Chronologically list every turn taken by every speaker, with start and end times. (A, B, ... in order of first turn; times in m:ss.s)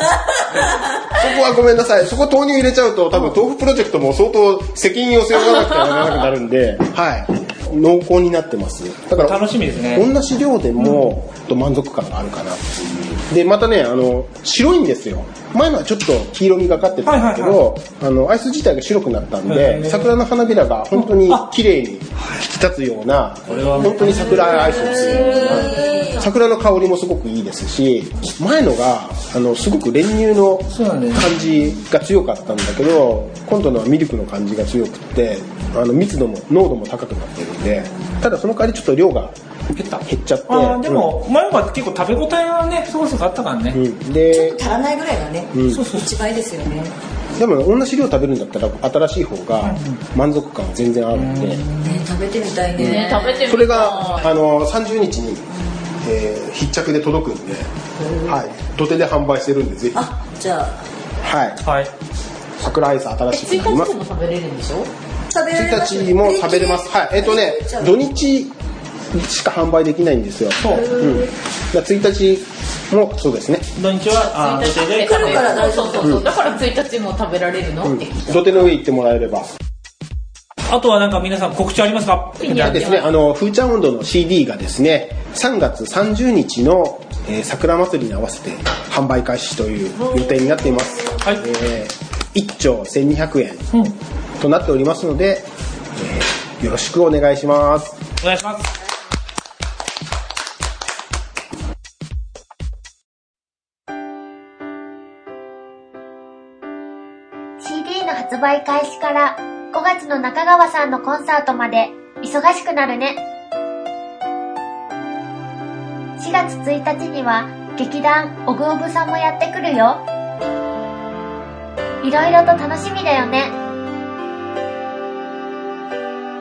0:01.0-0:39.3 A
0:09.2-0:10.1 B
0:17.0-0:17.6 B
0:19.5-0:20.1 B
0:21.0-0:21.5 B
0:23.5-0:25.3 B
0:24.4-0:26.2 C
0:30.7-0:31.3 B
0:39.8-0:43.8 B
0:40.1-0:41.1 A
0:43.7-0:44.6 A
0:44.3-0:47.0 C
0:45.5-0:45.8 A
0:45.7-0:46.1 B
0:47.4-0:51.6 A
0:49.6-0:50.0 B
0:51.4-0:51.7 B
0:51.8-0:53.5 C
0:52.9-0:54.3 D
0:53.4-0:55.5 A
0:55.5-0:56.0 C
0:56.0-0:57.7 A
0:58.0-0:58.4 C
0:58.3-1:00.1 A
0:59.9-1:00.8 C
1:01.2-1:01.6 A
1:01.6-1:01.9 B
1:02.6-1:03.9 A
1:03.3-1:04.9 D
1:05.3-1:08.0 C
1:05.5-1:08.5 A
1:09.1-1:13.7 A
1:10.6-1:10.9 B
1:11.0-1:11.2 C
1:13.8-1:15.6 B
1:14.1-1:18.6 D
1:14.9-1:16.3 C
1:17.8-1:19.5 A
1:20.7-1:22.4 B
1:22.4-1:23.1 D
1:22.4-1:33.7 A
1:34.4-1:38.0 A
1:38.2-1:38.7 B
1:47.6-1:53.2 E
1:56.2-2:00.0 E
2:02.0-2:03.6 E